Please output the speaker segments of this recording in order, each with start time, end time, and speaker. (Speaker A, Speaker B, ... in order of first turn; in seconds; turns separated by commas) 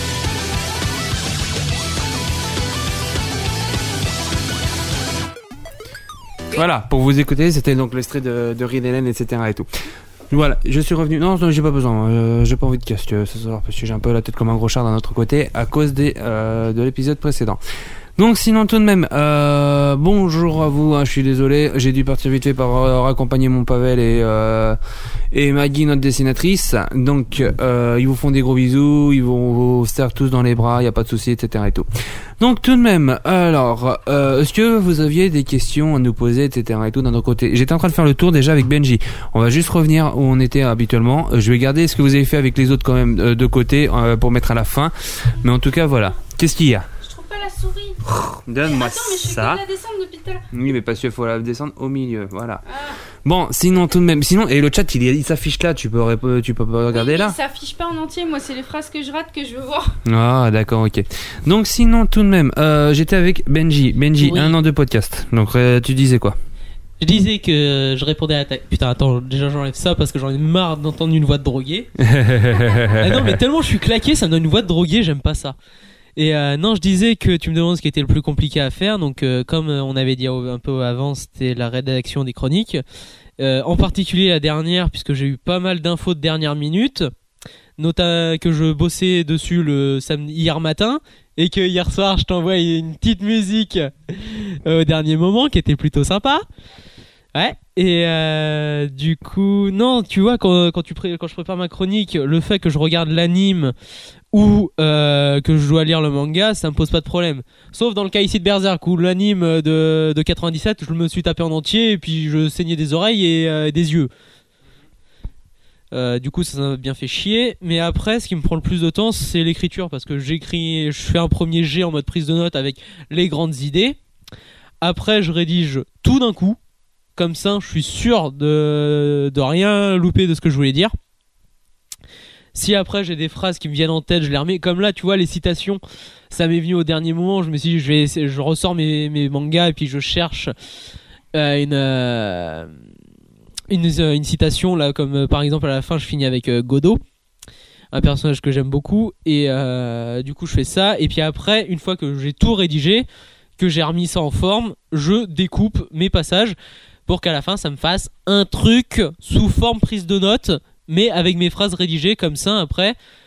Speaker A: 6.5-9.7, Speaker A: 10.3-17.6, Speaker A: 18.1-24.8, Speaker A: 25.3-31.9, Speaker A: 32.4-46.9, Speaker B: 47.0-48.0, Speaker A: 48.3-49.6, Speaker B: 48.6-50.4, Speaker A: 50.5-52.6, Speaker B: 52.6-53.0, Speaker A: 53.2-57.4, Speaker B: 56.9-59.9, Speaker A: 60.0-66.3, Speaker C: 64.2-64.5, Speaker C: 67.0-71.9, Speaker A: 72.0-73.4, Speaker C: 73.0-75.5, Speaker C: 76.2-82.8, Speaker C: 83.4-87.1, Speaker C: 87.8-96.5, Speaker C: 97.3-103.7, Speaker C: 104.3-114.1, Speaker C: 115.9-124.0, Speaker C: 124.8-126.6, Speaker C: 127.2-130.9, Speaker C: 132.5-140.5, Speaker C: 141.3-142.7, Speaker C: 143.7-147.0, Speaker C: 147.9-153.1, Speaker C: 153.6-156.6, Speaker C: 157.1-162.9